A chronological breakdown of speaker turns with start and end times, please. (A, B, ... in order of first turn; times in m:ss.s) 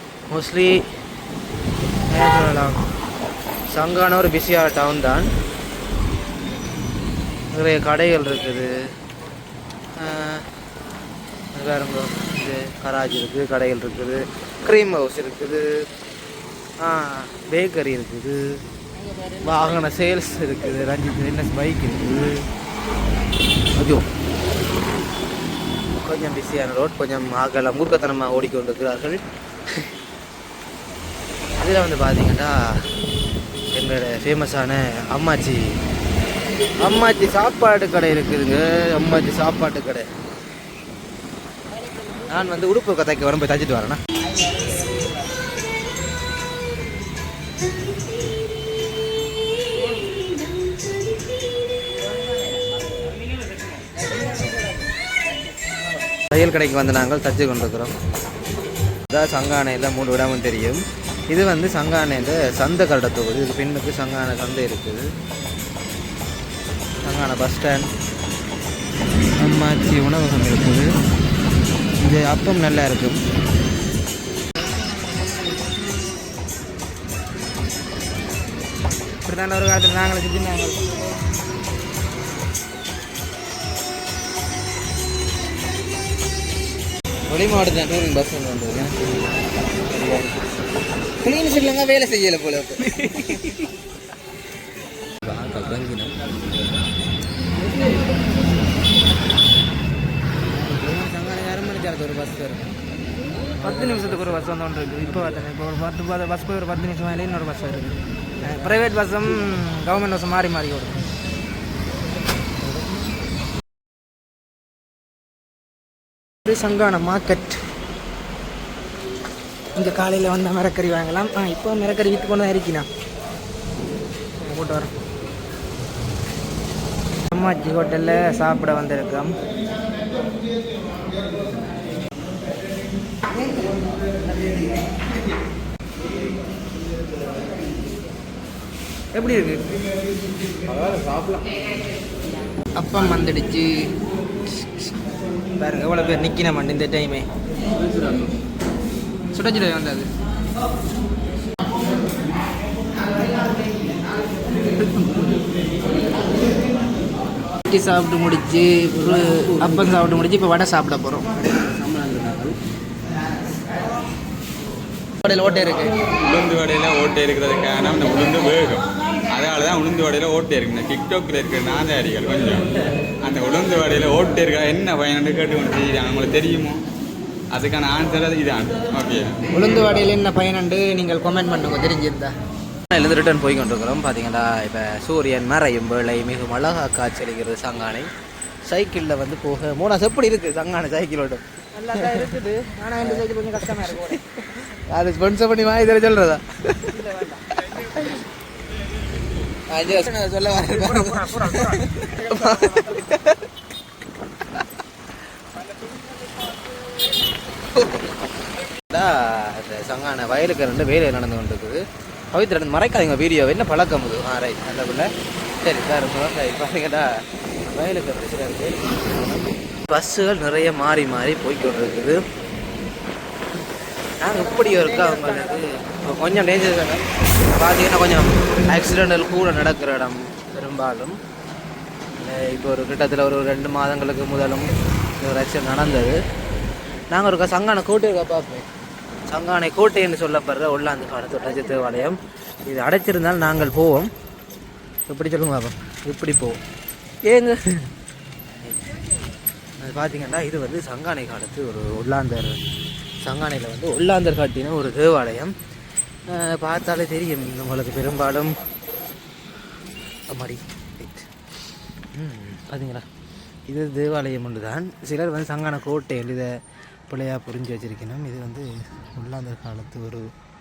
0:00.3-0:00.7 A
0:02.1-0:02.8 A
0:03.7-0:05.3 A
0:07.5-0:08.8 A
0:10.0-0:10.4 A
0:11.6-0:15.7 A
0:16.8-0:18.4 A
0:19.0-0:20.6 B
0:19.4-0:22.5 A
0:23.8-0:24.0 A
0:26.0-0:29.2 A
0:31.6-0:32.6 A
0:33.7-0:35.6 A
0:36.8-0:40.1 A
0:41.7-0:42.6 B
0:42.3-0:44.0 A
0:44.3-0:45.1 B
0:53.9-0:54.7 B
0:56.3-0:57.9 A
0:59.1-1:05.1 A
1:07.0-1:07.9 A
1:09.4-1:10.9 A
1:12.0-1:13.2 A
1:19.2-1:20.8 B
1:27.3-1:29.4 A
1:29.9-1:30.4 A
1:31.2-1:33.4 A
1:33.0-1:33.5 B
1:35.2-1:36.1 A
1:40.5-1:42.7 A
1:43.6-1:44.5 A
1:43.6-1:51.0 B
1:52.7-1:53.0 A
1:56.5-1:57.6 B
1:59.8-2:02.9 B
2:04.4-2:04.9 B
2:07.3-2:09.4 B
2:13.4-2:13.8 B
2:19.1-2:19.6 B
2:22.8-2:23.9 B
2:24.5-2:24.9 B
2:25.6-2:27.3 B
2:29.3-2:30.1 B
2:34.7-2:35.2 B
2:37.7-2:41.4 B
2:45.2-2:46.0 B
2:46.2-2:56.8 C
2:57.5-2:59.4 C
2:59.5-3:02.3 B
3:02.9-3:08.1 A
3:08.7-3:11.5 A
3:11.7-3:14.2 B
3:12.0-3:12.3 A
3:13.9-3:16.9 A
3:16.9-3:17.4 B
3:18.0-3:18.2 A
3:18.8-3:19.2 C
3:19.7-3:23.5 A
3:20.8-3:23.0 B
3:25.6-3:26.9 B
3:27.7-3:28.1 A
3:28.8-3:31.8 A
3:32.3-3:35.1 A
3:35.6-3:37.1 A
3:37.6-3:42.2 A
3:44.2-3:51.1 A
3:44.3-3:45.6 B
3:52.2-3:56.2 A
3:57.1-3:58.7 A
3:59.3-4:04.1 A
4:05.1-4:06.6 A
4:07.3-4:07.8 A
4:08.6-4:08.9 A
4:09.8-4:12.6 A
4:13.2-4:15.5 A
4:16.3-4:18.5 A
4:20.3-4:21.3 A
4:22.2-4:23.0 A
4:23.7-4:26.5 A
4:27.1-4:30.3 A